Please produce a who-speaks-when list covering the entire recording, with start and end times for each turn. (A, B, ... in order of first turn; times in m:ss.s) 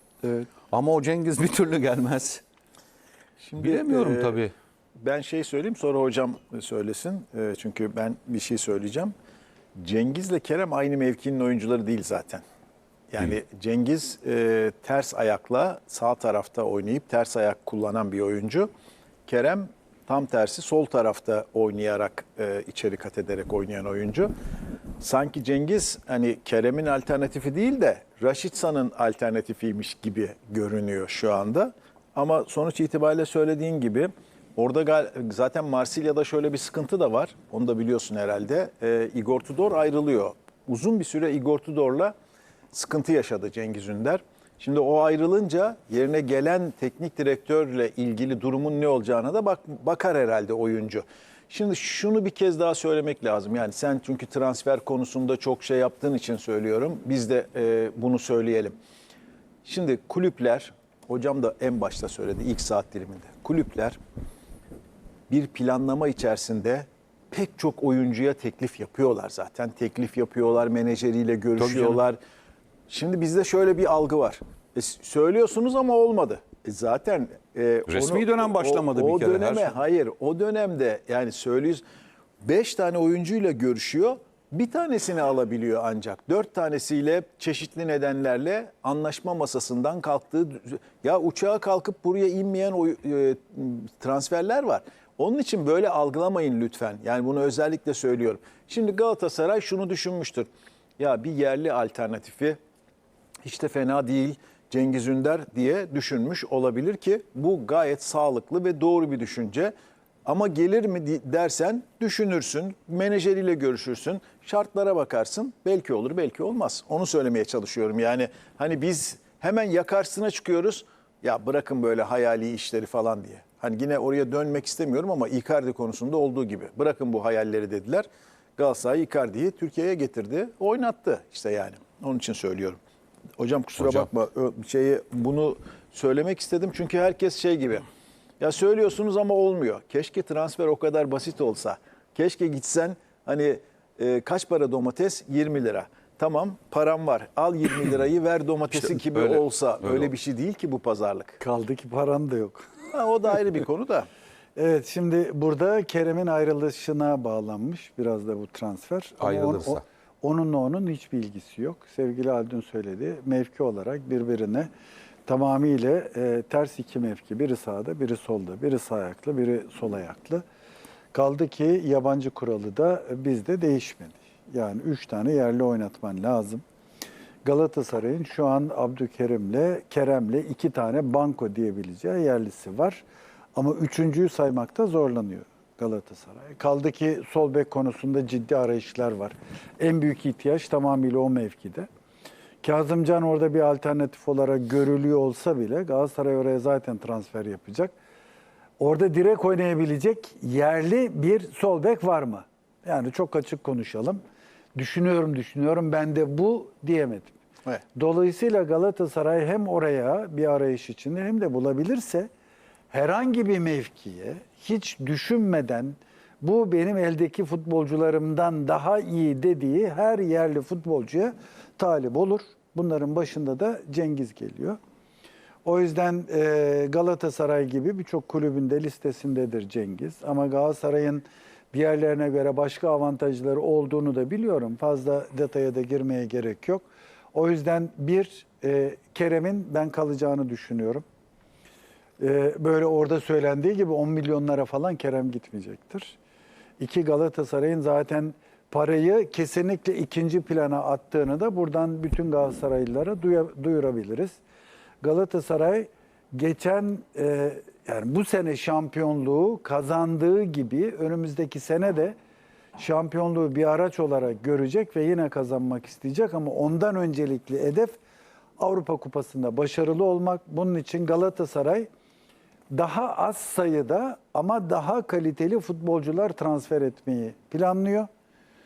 0:00.5-0:02.4 A
0:03.4-0:04.4 B
0:03.6-0:04.5 A
0:05.0-0:09.1 B
0:09.8-0:12.4 B
0:13.1-0:18.7 B
0:19.3-0:24.3 B
0:25.0-0:42.1 B
0:42.7-0:58.8 B
0:59.6-1:04.0 B
1:05.3-1:12.2 B
1:11.6-1:12.0 A
1:12.9-1:21.8 B
1:17.9-1:19.8 A
1:22.4-1:42.6 B
1:43.4-1:49.7 B
1:50.3-2:12.8 B
2:13.4-2:17.9 B
2:13.8-2:14.1 A
2:18.4-2:31.4 B
2:28.9-2:30.1 A
2:31.4-2:32.9 C
2:32.9-2:34.1 B
2:34.6-2:44.7 C
2:39.2-2:39.8 A
2:45.3-2:50.4 C
2:51.1-2:56.6 C
2:57.4-3:03.0 C
3:03.6-3:11.9 C
3:12.6-3:18.0 C
3:18.8-3:24.2 C
3:24.8-3:27.4 C
3:28.0-3:32.3 C
3:32.9-3:44.8 C
3:45.6-4:01.0 C
4:02.2-4:06.2 C
4:06.8-4:14.4 C
4:15.0-4:22.2 C
4:22.8-4:28.0 C
4:28.6-4:31.9 C
4:32.7-4:38.1 C